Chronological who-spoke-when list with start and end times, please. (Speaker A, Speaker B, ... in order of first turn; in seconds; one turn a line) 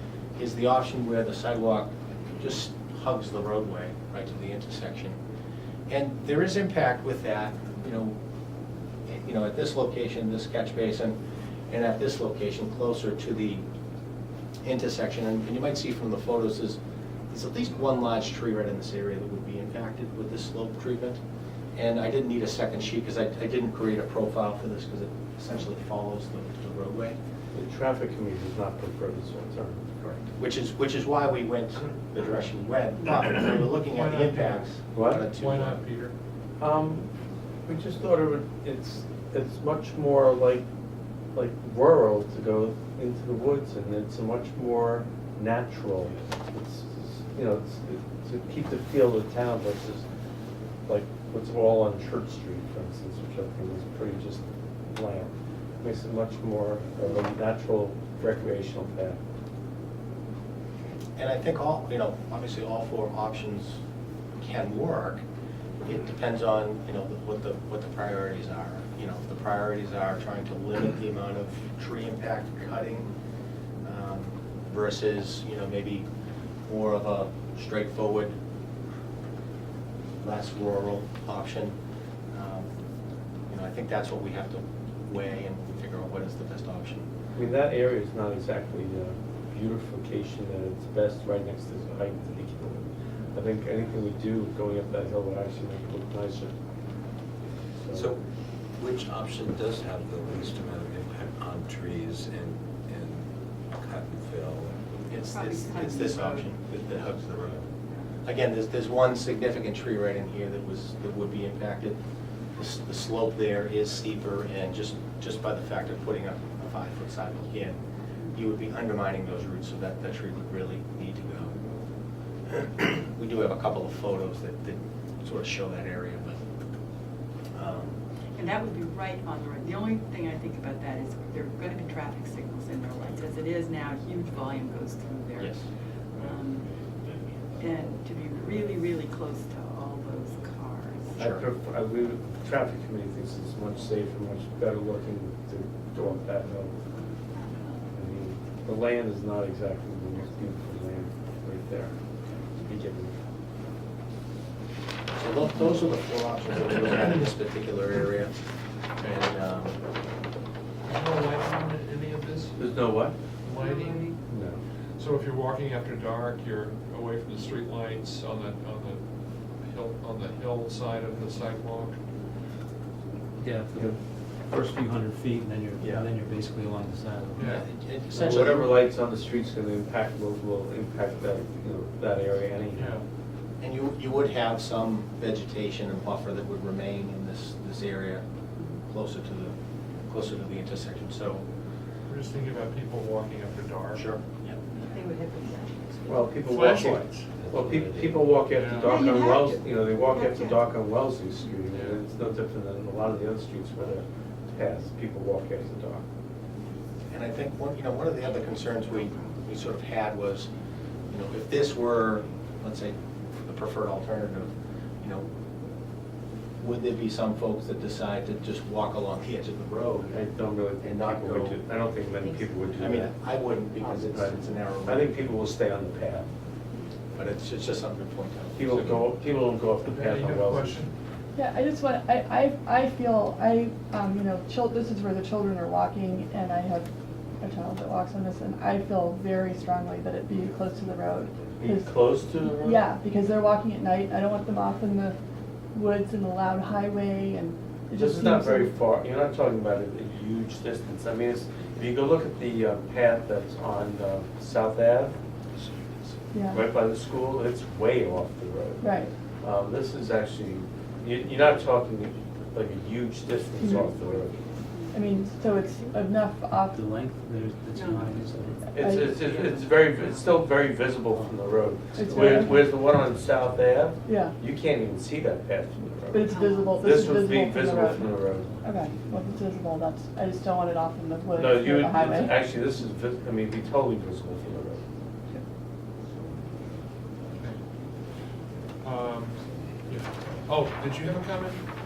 Speaker A: 0.4-5.2
Speaker A: 5.9-8.1
Speaker A: 9.1-11.2
Speaker A: 11.7-13.6
Speaker A: 14.6-16.8
Speaker A: 17.3-21.2
Speaker A: 21.7-27.1
Speaker B: 27.5-29.8
Speaker A: 30.0-35.8
Speaker C: 33.8-34.7
Speaker B: 34.9-35.2
Speaker C: 35.3-36.1
Speaker B: 36.6-37.1
Speaker B: 37.6-40.6
Speaker B: 41.3-50.0
Speaker B: 50.9-59.2
Speaker A: 61.2-63.8
Speaker A: 64.4-65.2
Speaker A: 65.8-73.1
Speaker A: 73.8-76.0
Speaker A: 76.7-78.3
Speaker A: 80.2-81.7
Speaker A: 82.3-82.7
Speaker A: 83.5-87.1
Speaker B: 87.3-92.8
Speaker B: 93.3-96.5
Speaker B: 97.8-98.1
Speaker D: 97.9-98.2
Speaker D: 98.8-104.7
Speaker A: 105.1-107.6
Speaker E: 105.2-106.5
Speaker A: 108.2-112.0
Speaker A: 112.5-117.8
Speaker A: 118.3-121.6
Speaker A: 122.5-126.4
Speaker A: 127.5-128.0
Speaker E: 128.3-135.6
Speaker A: 135.4-135.6
Speaker E: 136.2-136.7
Speaker E: 137.6-141.2
Speaker A: 141.2-141.4
Speaker B: 141.2-146.7
Speaker B: 147.9-151.9
Speaker B: 152.6-153.2
Speaker A: 155.1-158.3
Speaker A: 159.0-159.8
Speaker C: 160.8-162.5
Speaker B: 162.6-163.2
Speaker C: 163.4-164.1
Speaker E: 163.5-164.2
Speaker B: 164.3-164.6
Speaker C: 165.0-169.0
Speaker C: 169.6-171.9
Speaker F: 173.4-174.0
Speaker F: 174.5-177.6
Speaker B: 175.8-176.1
Speaker C: 177.3-177.6
Speaker A: 177.4-178.8
Speaker B: 178.1-182.9
Speaker F: 178.1-178.4
Speaker C: 182.7-183.0
Speaker A: 183.6-188.2
Speaker A: 188.8-189.5
Speaker A: 190.1-191.4
Speaker C: 192.1-194.1
Speaker A: 193.9-194.6
Speaker E: 194.7-196.4
Speaker B: 196.1-206.0
Speaker C: 196.4-197.2
Speaker D: 197.4-198.3
Speaker C: 198.5-199.1
Speaker E: 198.8-200.6
Speaker C: 201.7-202.0
Speaker A: 207.1-210.5
Speaker A: 211.1-215.2
Speaker A: 216.6-220.1
Speaker B: 220.1-223.1
Speaker A: 220.8-221.6
Speaker A: 222.7-225.3
Speaker B: 223.8-226.3
Speaker A: 227.1-229.0
Speaker B: 228.6-230.8
Speaker C: 228.7-229.1
Speaker C: 229.8-230.9
Speaker G: 231.3-245.2
Speaker B: 241.6-242.8
Speaker G: 245.7-248.7
Speaker B: 247.9-255.2
Speaker G: 256.3-256.6
Speaker B: 256.5-264.4
Speaker G: 258.8-259.1
Speaker G: 263.6-264.0
Speaker E: 264.7-264.9
Speaker G: 264.9-266.8
Speaker F: 266.6-268.7
Speaker E: 267.7-268.2
Speaker B: 268.7-276.2
Speaker G: 268.8-269.2
Speaker E: 269.1-270.4
Speaker F: 271.1-271.6
Speaker G: 271.9-272.6
Speaker F: 272.1-273.5
Speaker G: 274.1-274.4
Speaker G: 276.1-282.3
Speaker E: 276.3-276.9
Speaker B: 276.8-278.5
Speaker F: 277.9-279.5
Speaker B: 281.4-284.8
Speaker C: 288.8-289.4
Speaker C: 289.9-291.6